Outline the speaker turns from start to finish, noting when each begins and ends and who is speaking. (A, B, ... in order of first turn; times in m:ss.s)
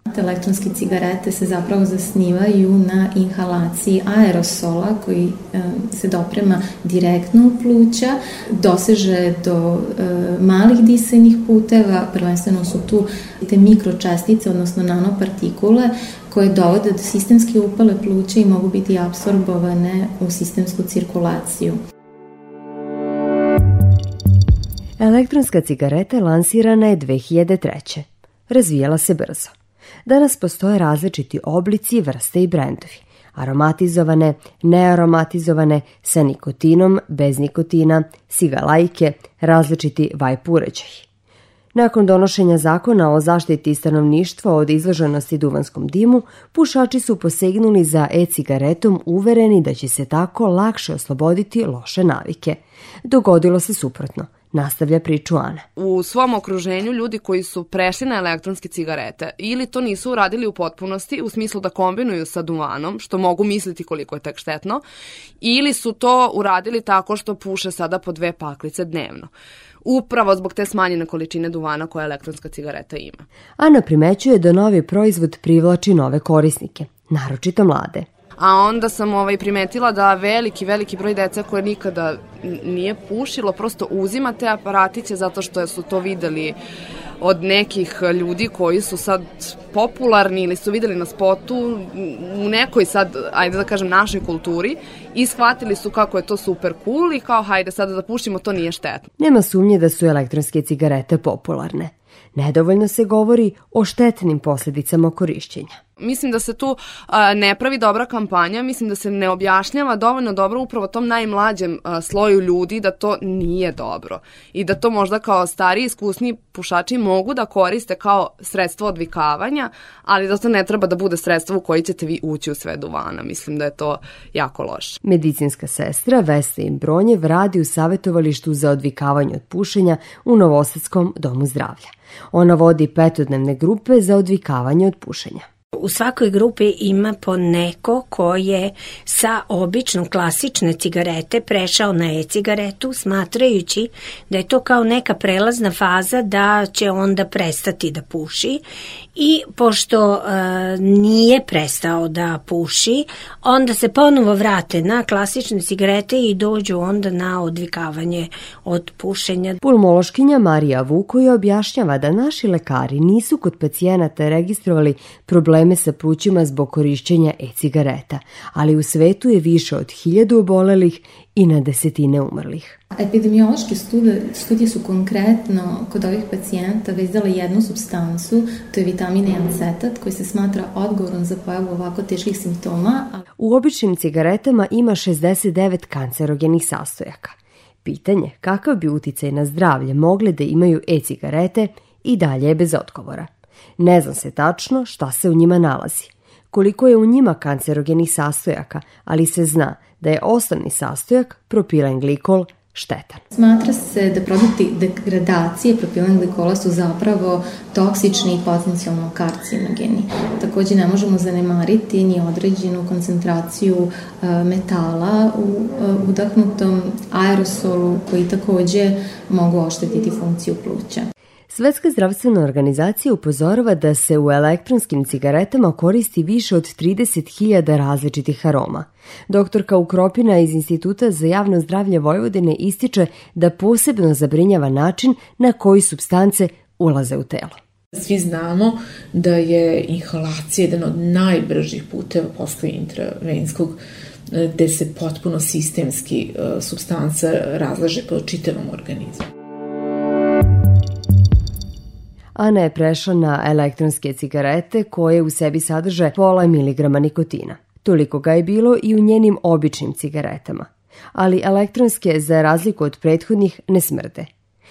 0:00.1-0:21.8 A
0:25.0-0:29.5 B
0:30.1-0:41.0 B
0:41.8-0:55.6 B
0:55.8-1:04.8 C
1:05.4-1:09.3 C
1:09.8-1:13.2 C
1:13.6-1:18.1 B
1:18.4-1:26.6 C
1:27.2-1:39.1 C
1:39.2-1:45.8 B
1:46.0-2:05.0 C
2:05.0-2:15.5 B
2:15.8-2:28.6 D
2:29.2-2:39.6 D
2:39.6-2:52.8 B
2:53.0-3:03.2 A
3:03.4-3:23.2 B
3:23.3-3:41.1 A
3:41.5-3:57.6 B
3:58.0-4:03.8 E
4:04.3-4:09.3 E
4:12.4-4:24.3 B